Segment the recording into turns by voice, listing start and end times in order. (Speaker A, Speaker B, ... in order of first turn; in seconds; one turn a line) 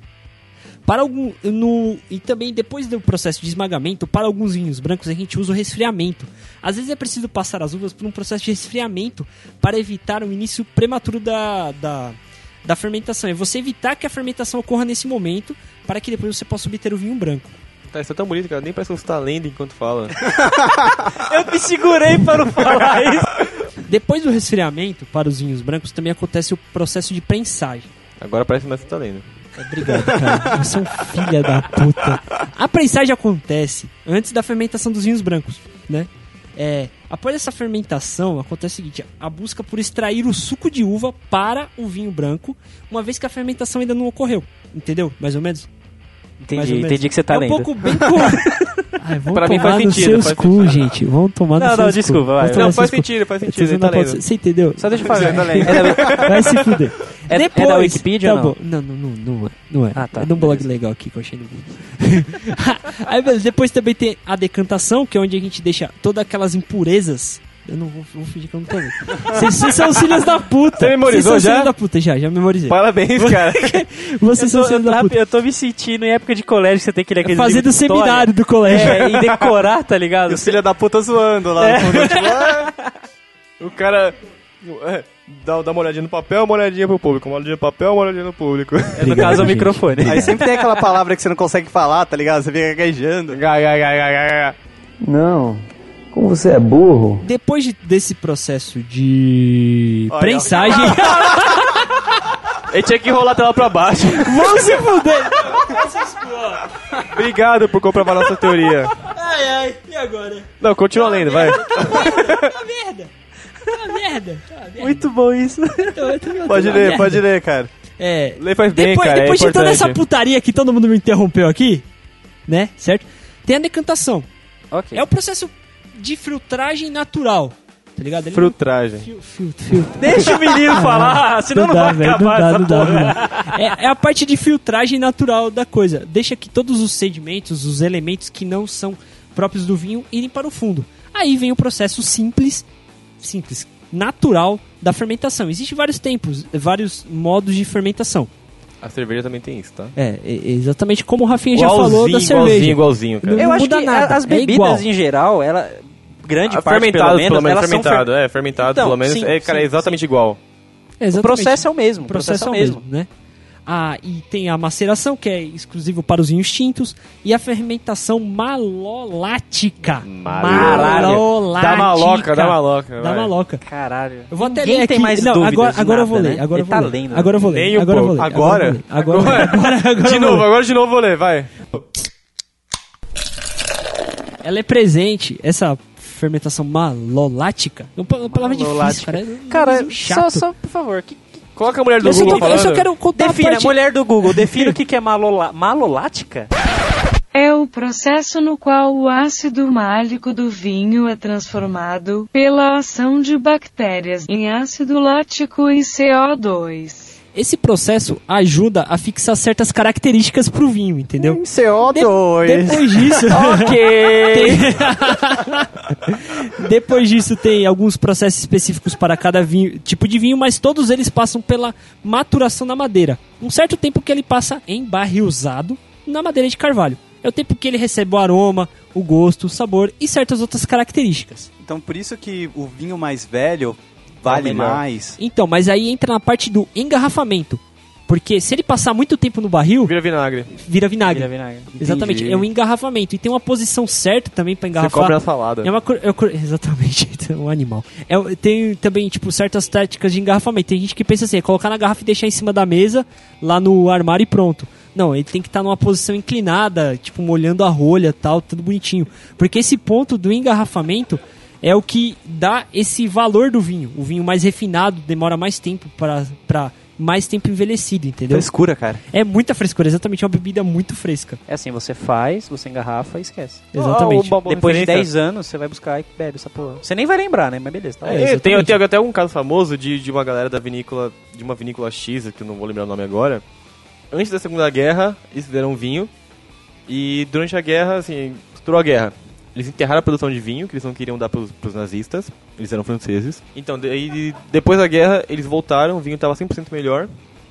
Speaker A: 0.9-17.6
Speaker B: 17.9-20.3
Speaker C: 20.9-23.4
Speaker A: 23.9-27.9
Speaker B: 28.2-29.2
Speaker A: 29.6-45.7
Speaker C: 46.4-47.7
Speaker A: 46.5-75.1
Speaker D: 47.9-48.2
Speaker B: 49.3-51.0
Speaker C: 51.6-52.8
Speaker B: 52.4-54.2
Speaker C: 54.8-56.3
Speaker D: 55.0-56.3
Speaker B: 56.0-56.4
Speaker C: 57.3-58.5
Speaker C: 59.9-60.7
Speaker B: 69.3-71.7
Speaker B: 72.7-73.8
Speaker C: 74.3-80.6
Speaker A: 77.2-79.1
Speaker B: 78.8-79.5
Speaker D: 80.3-82.7
Speaker C: 81.6-82.7
Speaker B: 83.6-89.5
Speaker C: 89.0-90.8
Speaker A: 89.0-90.3
Speaker D: 90.0-93.4
Speaker B: 93.3-94.6
Speaker E: 95.0-97.3
Speaker A: 97.2-101.8
Speaker D: 100.1-101.4
Speaker B: 102.7-104.8
Speaker A: 104.2-107.0
Speaker B: 107.0-109.0
Speaker A: 109.0-115.1
Speaker B: 110.6-112.5
Speaker C: 114.8-116.1
Speaker A: 116.0-117.2
Speaker D: 116.5-117.7
Speaker A: 118.0-121.9
Speaker B: 118.4-120.0
Speaker A: 122.5-124.3
Speaker C: 124.7-125.0
Speaker A: 125.0-142.6
Speaker B: 128.3-129.1
Speaker C: 129.9-133.8
Speaker A: 143.2-148.3
Speaker B: 148.8-149.9
Speaker A: 149.9-154.8
Speaker B: 151.5-153.5
Speaker C: 153.4-160.0
Speaker B: 156.4-160.4
Speaker A: 161.0-163.1
Speaker C: 161.1-162.8
Speaker A: 163.7-173.6
Speaker B: 170.0-173.3
Speaker C: 170.5-171.2
Speaker C: 173.6-177.5
Speaker A: 174.3-180.5
Speaker B: 177.5-178.3
Speaker D: 178.2-178.8
Speaker B: 179.0-181.7
Speaker A: 184.4-190.4
Speaker C: 188.3-196.5
Speaker B: 191.6-192.9
Speaker A: 192.0-193.8
Speaker A: 194.4-194.7
Speaker F: 197.3-207.1
Speaker A: 207.3-211.4
Speaker D: 211.2-213.3
Speaker A: 211.9-231.5
Speaker C: 213.3-214.7
Speaker D: 231.6-235.2
Speaker B: 234.3-234.8
Speaker A: 235.2-239.9
Speaker B: 239.8-240.6
Speaker A: 240.6-268.5
Speaker C: 241.1-241.8
Speaker B: 241.8-242.4
Speaker B: 244.7-245.7
Speaker D: 268.3-269.0
Speaker A: 269.1-271.4
Speaker C: 271.5-273.7
Speaker A: 273.7-274.4
Speaker B: 273.7-275.1
Speaker C: 274.3-278.3
Speaker A: 278.1-278.8
Speaker B: 278.1-283.4
Speaker B: 284.1-286.1
Speaker B: 286.9-297.1